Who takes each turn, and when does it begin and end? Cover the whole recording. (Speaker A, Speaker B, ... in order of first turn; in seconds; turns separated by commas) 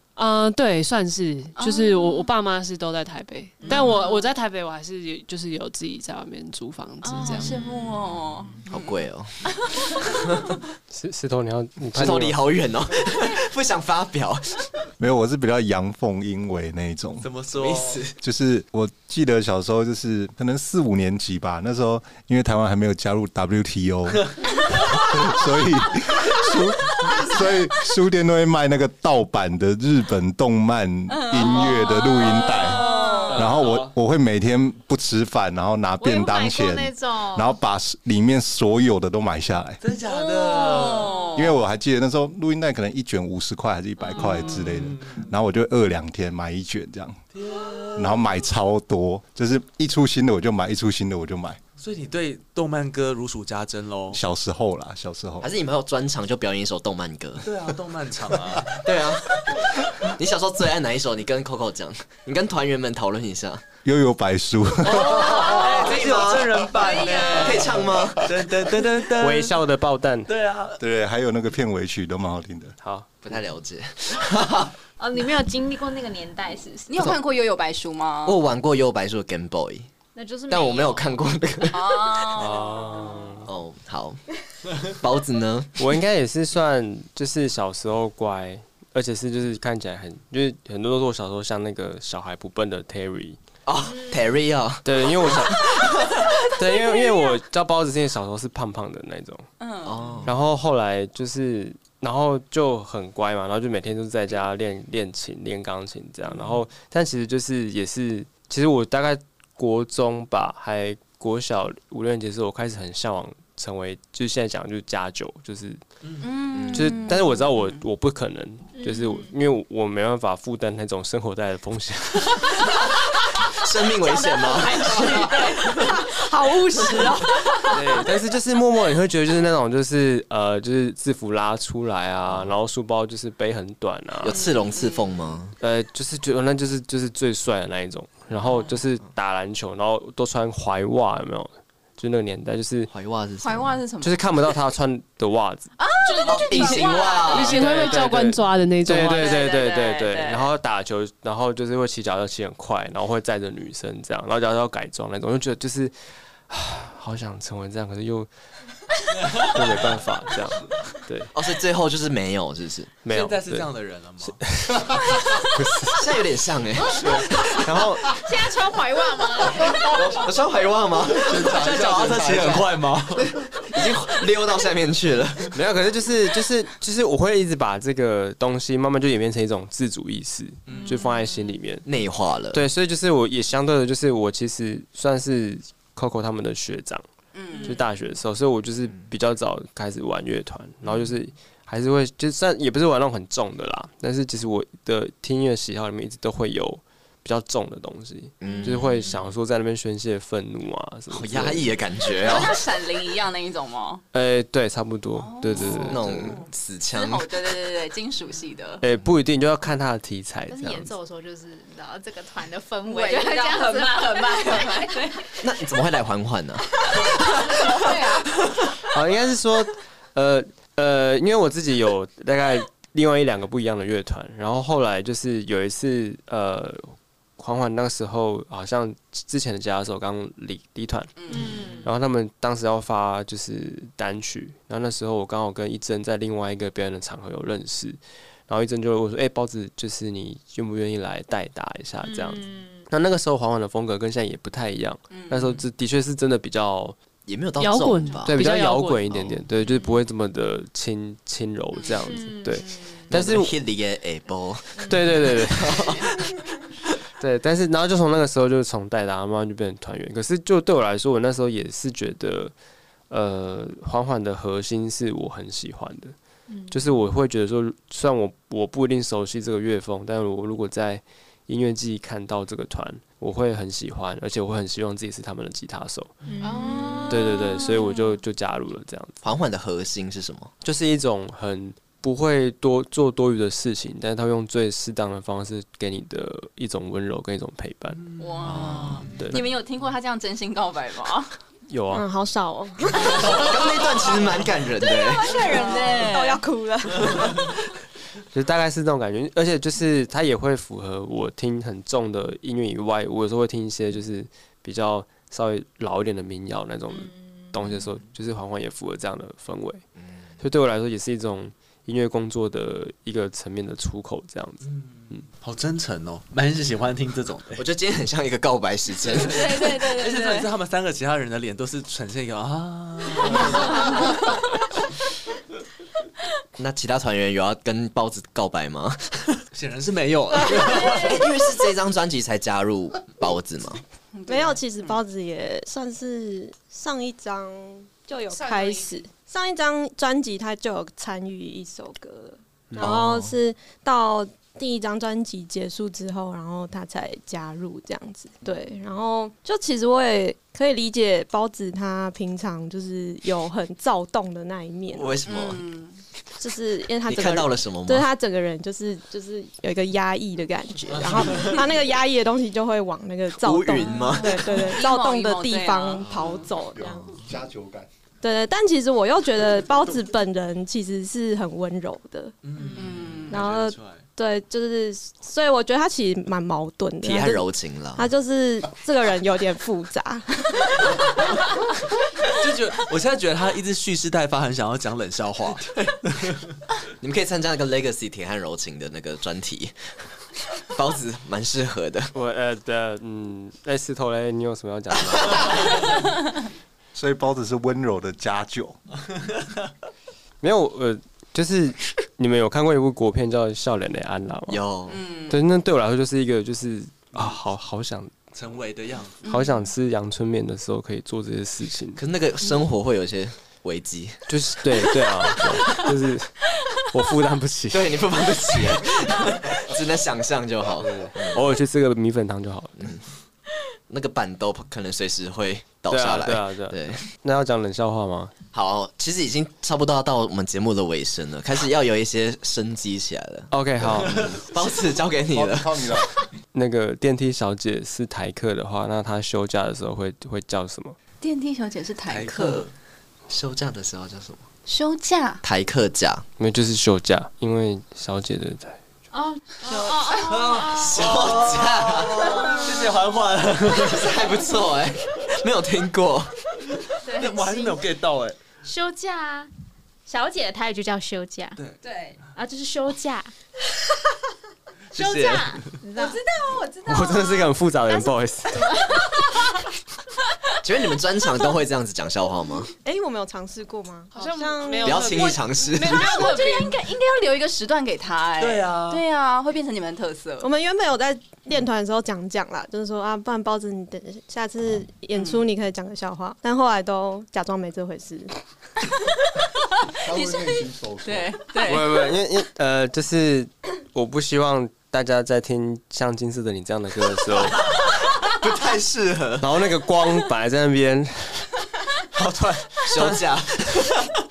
Speaker A: 0.1-7.7, Speaker B: 1.6-2.3, Speaker B: 3.6-4.3, Speaker B: 7.0-9.0, Speaker C: 8.7-9.4, Speaker B: 9.6-10.2, Speaker D: 10.9-12.4, Speaker C: 11.9-14.7, Speaker E: 15.0-17.3, Speaker F: 17.2-18.0, Speaker C: 17.5-18.1, Speaker E: 18.2-39.8, Speaker B: 31.1-33.5, Speaker F: 33.3-33.9, Speaker G: 36.0-37.6, Speaker F: 39.8-41.3, Speaker B: 40.0-41.6, Speaker E: 41.3-47.2, Speaker F: 44.1-45.3, Speaker F: 47.3-48.3, Speaker E: 47.9-51.6, Speaker F: 51.8-54.2, Speaker E: 54.1-55.5, Speaker C: 55.4-57.5, Speaker F: 57.4-58.9, Speaker C: 58.8-63.6, Speaker E: 63.8-65.5, Speaker F: 64.8-69.6, Speaker B: 65.3-65.8, Speaker C: 65.9-66.7, Speaker B: 66.8-67.3, Speaker G: 66.8-67.5, Speaker C: 67.3-68.3, Speaker D: 69.2-70.3, Speaker F: 70.3-70.8, Speaker E: 70.8-72.7, Speaker D: 72.8-73.1, Speaker C: 73.2-74.7, Speaker G: 75.0-77.0, Speaker B: 76.9-78.4, Speaker C: 78.2-79.9, Speaker G: 80.1-81.2, Speaker C: 80.5-82.3, Speaker B: 81.7-83.4, Speaker D: 82.3-83.5, Speaker C: 83.5-84.2, Speaker C: 85.0-85.8, Speaker D: 85.8-93.4, Speaker C: 93.7-96.2, Speaker G: 93.9-94.3, Speaker D: 94.8-95.6, Speaker D: 96.5-99.5, Speaker B: 96.9-97.3, Speaker B: 99.6-100.2, Speaker C: 99.8-100.3, Speaker D: 100.2-115.8, Speaker F: 116.0-116.3, Speaker B: 116.2-117.8, Speaker C: 116.5-117.0, Speaker D: 116.7-122.5, Speaker G: 118.8-119.3, Speaker C: 123.5-125.3, Speaker G: 124.2-125.5, Speaker B: 124.6-126.0, Speaker H: 124.8-127.7, Speaker D: 127.7-134.4, Speaker C: 134.2-135.5, Speaker B: 134.3-135.3, Speaker D: 135.6-142.9, Speaker B: 138.5-138.7, Speaker C: 142.9-143.7, Speaker B: 143.4-144.2, Speaker D: 144.0-145.7, Speaker B: 145.8-148.1, Speaker G: 146.1-147.1, Speaker C: 146.2-147.6, Speaker A: 147.3-149.4, Speaker D: 147.6-155.9, Speaker B: 148.9-150.5, Speaker D: 156.5-158.3, Speaker D: 159.2-161.3, Speaker F: 159.3-159.6, Speaker C: 161.3-162.9, Speaker D: 163.0-163.7, Speaker F: 163.1-164.5, Speaker D: 164.2-166.0, Speaker C: 165.9-167.6, Speaker F: 166.9-167.3, Speaker D: 167.5-168.2, Speaker G: 168.1-170.2, Speaker C: 169.8-175.6, Speaker F: 171.2-173.7, Speaker E: 171.3-172.6, Speaker D: 175.5-181.8, Speaker F: 180.7-180.9, Speaker B: 180.7-181.5, Speaker C: 181.8-182.6, Speaker D: 182.5-187.0, Speaker B: 187.3-187.8, Speaker D: 187.6-201.7, Speaker C: 198.4-198.9, Speaker B: 198.4-199.1, Speaker C: 201.1-202.6, Speaker B: 202.0-204.0, Speaker D: 204.1-206.3, Speaker B: 205.1-208.8, Speaker C: 205.9-207.3, Speaker D: 208.8-210.9, Speaker G: 210.5-215.1, Speaker B: 212.9-215.3, Speaker C: 215.4-217.1, Speaker B: 217.4-218.2, Speaker D: 218.9-246.9, Speaker B: 231.2-231.9, Speaker G: 231.3-231.9, Speaker G: 242.0-242.8, Speaker B: 245.1-245.6, Speaker C: 247.2-248.4, Speaker A: 247.6-249.3, Speaker D: 248.2-253.5, Speaker B: 249.6-250.0, Speaker G: 251.9-253.0, Speaker C: 253.1-256.4, Speaker G: 254.8-255.1, Speaker D: 254.9-255.9, Speaker D: 257.2-262.5, Speaker D: 263.1-266.1, Speaker G: 266.5-266.8, Speaker D: 266.7-276.1, Speaker G: 276.2-277.3, Speaker B: 276.4-278.2, Speaker D: 277.1-279.1, Speaker C: 279.2-280.5, Speaker D: 280.6-289.4, Speaker F: 288.0-289.3, Speaker B: 288.2-291.3, Speaker D: 291.7-292.0, Speaker H: 291.9-293.6, Speaker C: 293.3-295.4, Speaker B: 294.9-296.4, Speaker H: 295.2-297.5, Speaker D: 298.3-309.8, Speaker D: 310.4-315.2, Speaker F: 314.6-317.6, Speaker C: 317.6-319.4, Speaker F: 319.1-323.8, Speaker B: 319.1-320.5, Speaker B: 323.2-324.1, Speaker C: 326.6-329.2, Speaker F: 329.5-331.2, Speaker C: 330.5-333.8, Speaker B: 334.1-335.0, Speaker H: 334.3-355.1, Speaker G: 338.4-338.9, Speaker C: 342.8-343.2, Speaker C: 354.9-355.6, Speaker B: 355.2-356.0, Speaker H: 356.4-367.2, Speaker C: 357.1-358.1, Speaker C: 360.8-361.5, Speaker F: 361.1-361.6, Speaker C: 363.4-364.5, Speaker B: 363.8-366.4, Speaker E: 366.8-367.9, Speaker H: 368.2-372.4, Speaker F: 372.4-374.1, Speaker B: 372.6-373.4, Speaker H: 373.3-380.8, Speaker C: 377.0-378.1, Speaker F: 382.2-386.5, Speaker C: 387.0-389.7, Speaker C: 390.7-392.1, Speaker D: 392.1-395.6, Speaker E: 396.9-398.8, Speaker D: 400.4-404.6, Speaker C: 404.5-405.0, Speaker B: 404.9-405.4, Speaker D: 405.3-408.1, Speaker F: 408.3-409.2, Speaker B: 409.2-409.6, Speaker D: 409.3-412.0, Speaker C: 411.9-414.2, Speaker D: 414.3-416.4, Speaker D: 416.9-418.0, Speaker C: 417.7-421.4, Speaker D: 421.3-422.8, Speaker C: 423.9-427.1, Speaker D: 425.9-428.3, Speaker C: 428.5-433.5, Speaker D: 433.5-434.4, Speaker F: 433.8-434.4, Speaker C: 434.4-436.2, Speaker E: 435.3-436.1, Speaker D: 436.5-440.9, Speaker B: 441.2-442.7, Speaker F: 442.1-442.7, Speaker C: 443.3-444.5, Speaker B: 444.6-445.4, Speaker C: 445.4-446.2, Speaker D: 446.4-448.8, Speaker G: 449.1-451.1, Speaker B: 449.7-450.4, Speaker F: 450.2-454.2, Speaker C: 450.7-452.3, Speaker G: 452.1-452.7, Speaker C: 453.7-456.3, Speaker G: 457.0-457.9, Speaker F: 457.1-458.4, Speaker G: 458.6-459.5, Speaker G: 460.1-463.3, Speaker B: 461.9-462.1, Speaker F: 464.9-465.8, Speaker G: 464.9-467.4, Speaker B: 465.9-467.5, Speaker D: 466.9-468.6, Speaker G: 468.5-469.4, Speaker B: 469.0-469.3, Speaker C: 470.6-472.7, Speaker H: 472.8-475.2, Speaker A: 474.1-476.6, Speaker C: 474.8-476.3, Speaker B: 475.7-480.5, Speaker F: 478.4-479.0, Speaker H: 480.4-488.3, Speaker B: 485.1-485.4, Speaker E: 490.0-491.4, Speaker B: 490.1-492.1, Speaker D: 491.6-497.6, Speaker C: 498.4-499.5, Speaker D: 499.4-503.2, Speaker C: 502.9-503.9